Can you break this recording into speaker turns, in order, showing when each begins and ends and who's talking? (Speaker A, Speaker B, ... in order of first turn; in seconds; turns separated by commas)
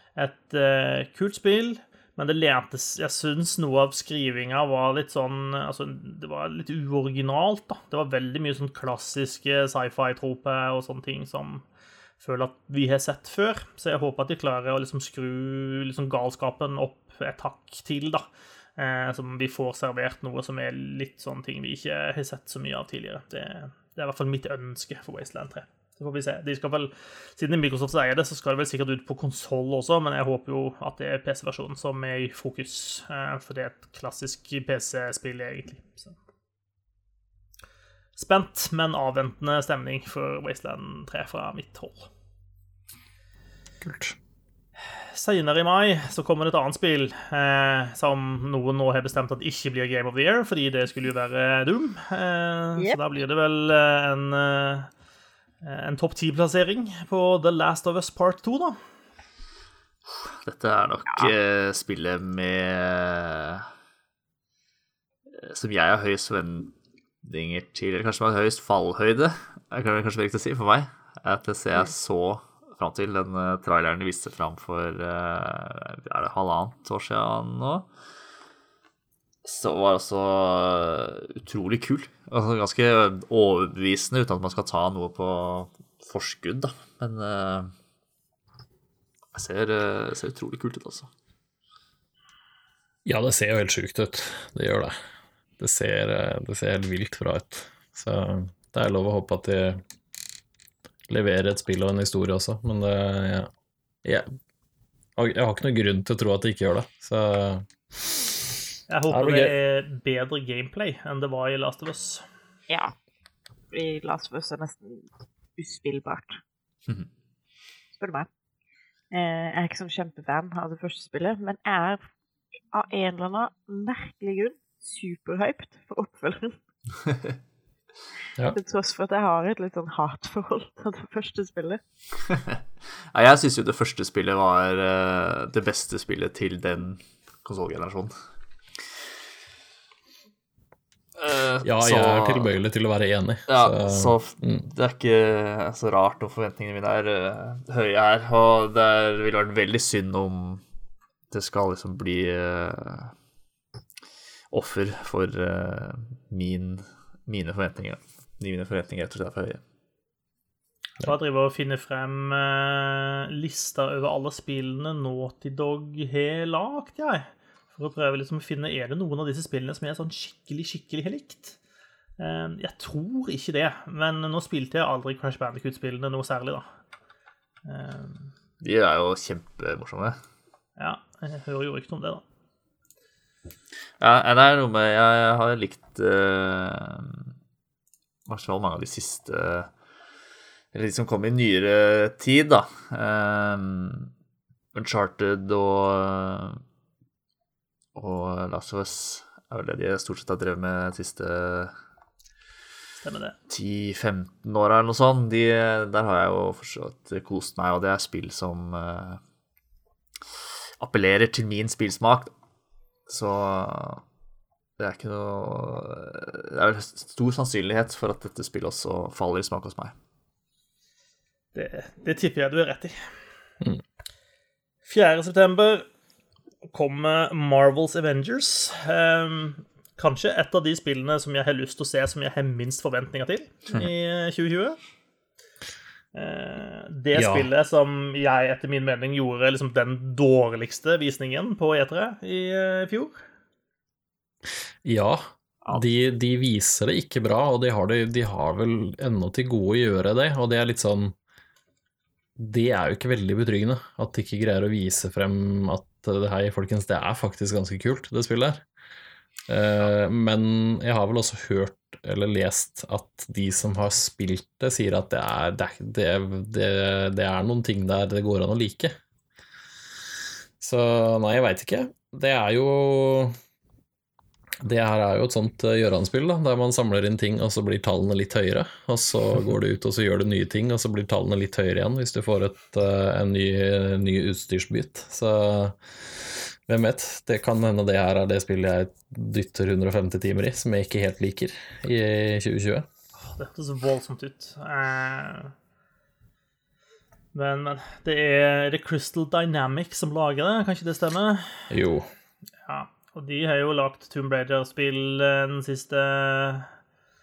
Speaker A: 0.1-11.6, Speaker A: 12.2-18.2, Speaker A: 18.8-36.1, Speaker A: 38.1-42.1, Speaker B: 43.8-44.1, Speaker A: 45.0-54.9, Speaker A: 55.6-58.8, Speaker C: 60.2-63.7, Speaker C: 65.3-77.9, Speaker C: 79.4-87.7, Speaker C: 89.3-91.1, Speaker B: 93.0-94.9, Speaker B: 95.6-99.8, Speaker B: 101.1-103.5, Speaker B: 104.0-104.3, Speaker B: 105.2-108.2, Speaker A: 108.9-112.2, Speaker B: 109.1-109.5, Speaker D: 112.7-112.9, Speaker D: 113.7-116.4, Speaker D: 118.0-118.3, Speaker D: 119.1-122.0, Speaker D: 122.7-126.6, Speaker D: 128.5-131.8, Speaker C: 133.1-138.1, Speaker C: 141.2-142.5, Speaker B: 141.6-144.6, Speaker C: 143.5-150.6, Speaker C: 151.3-153.1, Speaker C: 154.5-159.6, Speaker A: 161.0-171.6, Speaker A: 172.2-176.6, Speaker A: 177.7-178.3, Speaker C: 178.6-180.2, Speaker A: 180.8-182.2, Speaker C: 184.0-187.3, Speaker C: 188.3-189.7, Speaker C: 190.7-194.1, Speaker C: 194.7-196.6, Speaker C: 197.9-201.7, Speaker A: 203.0-203.3, Speaker C: 203.5-209.2, Speaker C: 210.8-212.3, Speaker C: 213.1-214.0, Speaker C: 214.8-219.9, Speaker A: 221.5-222.9, Speaker A: 224.8-225.8, Speaker A: 226.7-234.8, Speaker A: 236.1-243.2, Speaker B: 237.1-237.5, Speaker B: 244.8-251.1, Speaker B: 252.4-258.6, Speaker B: 259.5-268.9, Speaker B: 270.6-273.4, Speaker B: 274.6-292.9, Speaker A: 293.2-295.5, Speaker A: 297.3-301.7, Speaker B: 301.7-302.1, Speaker A: 302.6-306.7